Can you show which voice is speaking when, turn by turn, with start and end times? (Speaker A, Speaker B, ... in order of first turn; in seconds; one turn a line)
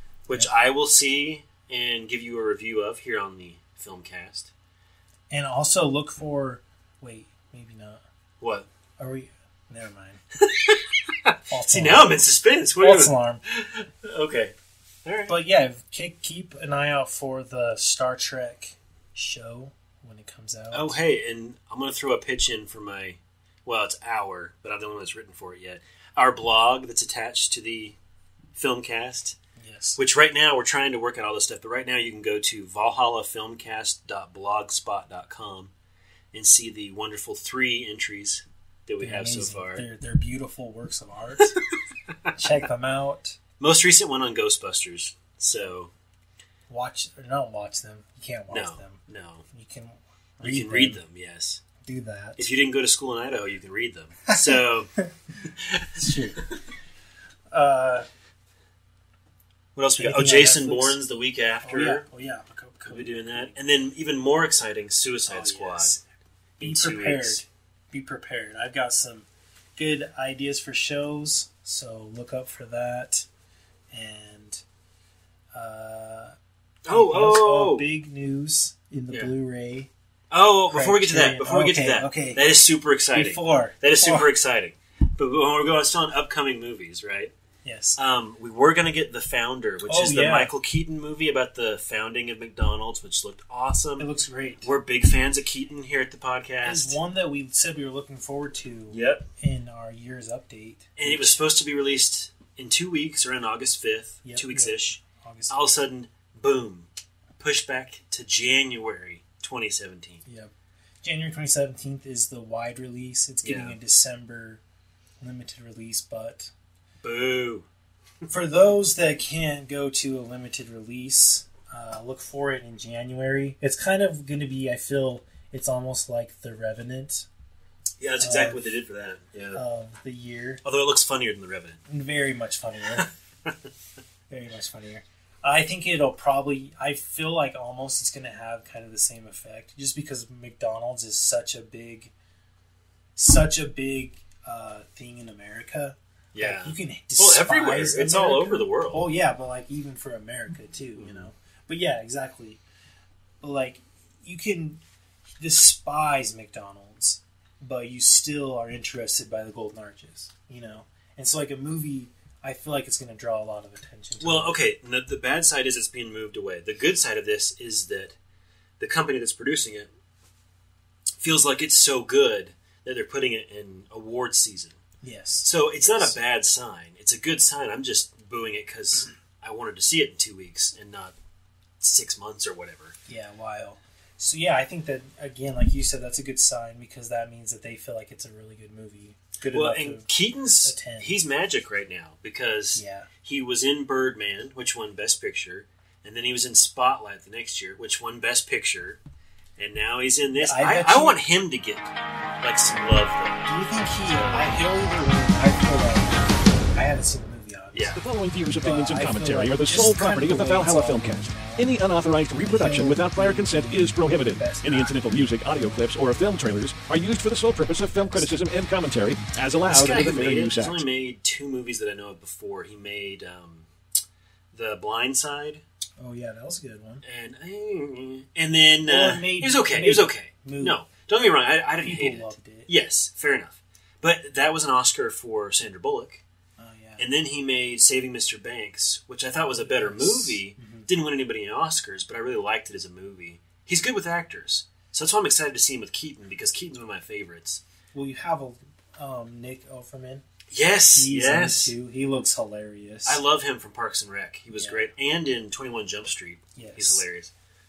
Speaker A: 0.3-4.5
Speaker B: 5.3-8.0
Speaker A: 8.4-8.7
Speaker B: 9.0-10.2
Speaker A: 10.4-15.3
Speaker B: 11.5-12.2
Speaker B: 12.8-13.4
Speaker B: 15.3-21.0
Speaker A: 20.7-28.0
Speaker A: 28.6-29.4
Speaker B: 29.6-30.0
Speaker A: 30.0-35.7
Speaker A: 36.3-39.9
Speaker B: 39.0-41.6
Speaker B: 42.3-43.4
Speaker A: 43.6-45.9
Speaker B: 46.7-51.0
Speaker A: 48.5-49.5
Speaker A: 50.4-51.6
Speaker B: 51.8-52.4
Speaker A: 52.4-56.2
Speaker B: 54.3-55.1
Speaker B: 56.0-56.5
Speaker B: 57.5-58.1
Speaker A: 59.8-62.0
Speaker B: 60.0-61.0
Speaker B: 61.6-63.6
Speaker A: 62.9-65.9
Speaker B: 65.3-66.0
Speaker A: 66.6-67.4
Speaker B: 66.6-73.3
Speaker B: 73.9-74.6
Speaker B: 75.5-76.3
Speaker A: 76.9-77.9
Speaker B: 76.9-79.9
Speaker A: 80.3-87.3
Speaker B: 80.7-82.5
Speaker B: 83.1-84.3
Speaker B: 87.6-88.0
Speaker A: 88.0-94.1
Speaker B: 89.8-90.5
Speaker B: 94.0-94.7
Speaker A: 94.6-97.0
Speaker B: 96.6-101.5
Speaker A: 98.9-99.3
Speaker A: 101.0-110.2
Speaker B: 104.2-105.7
Speaker B: 110.2-110.5
Speaker B: 111.0-114.6
Speaker A: 113.4-113.8
Speaker B: 115.2-116.5
Speaker A: 117.0-117.7
Speaker B: 118.3-127.3
Speaker A: 128.0-129.6
Speaker B: 128.2-128.8
Speaker B: 129.6-130.6
Speaker A: 130.6-131.8
Speaker B: 131.9-133.1
Speaker B: 134.3-142.1
Speaker B: 143.2-152.6
Speaker A: 146.3-149.1
Speaker A: 151.0-151.3
Speaker B: 153.4-154.8
Speaker B: 155.4-164.7
Speaker A: 164.2-168.2
Speaker A: 168.8-169.9
Speaker A: 171.2-174.8
Speaker B: 175.0-176.2
Speaker A: 175.4-181.2
Speaker A: 181.8-183.0
Speaker B: 183.1-191.1
Speaker A: 189.5-199.0
Speaker B: 192.7-193.1
Speaker A: 199.6-203.5
Speaker B: 200.4-201.2
Speaker B: 203.4-208.0
Speaker A: 204.1-204.6
Speaker A: 207.7-208.0
Speaker C: 208.0-220.8
Speaker B: 208.6-211.8
Speaker B: 212.4-215.8
Speaker A: 219.7-223.7
Speaker A: 224.5-225.6
Speaker B: 226.0-227.0
Speaker A: 227.0-236.2
Speaker B: 228.8-230.8
Speaker B: 231.8-232.7
Speaker B: 236.6-237.1
Speaker A: 237.0-247.6
Speaker B: 239.5-240.9
Speaker B: 247.9-250.3
Speaker A: 250.5-251.7
Speaker B: 250.9-253.2
Speaker A: 253.1-257.3
Speaker B: 254.5-254.9
Speaker B: 256.6-257.1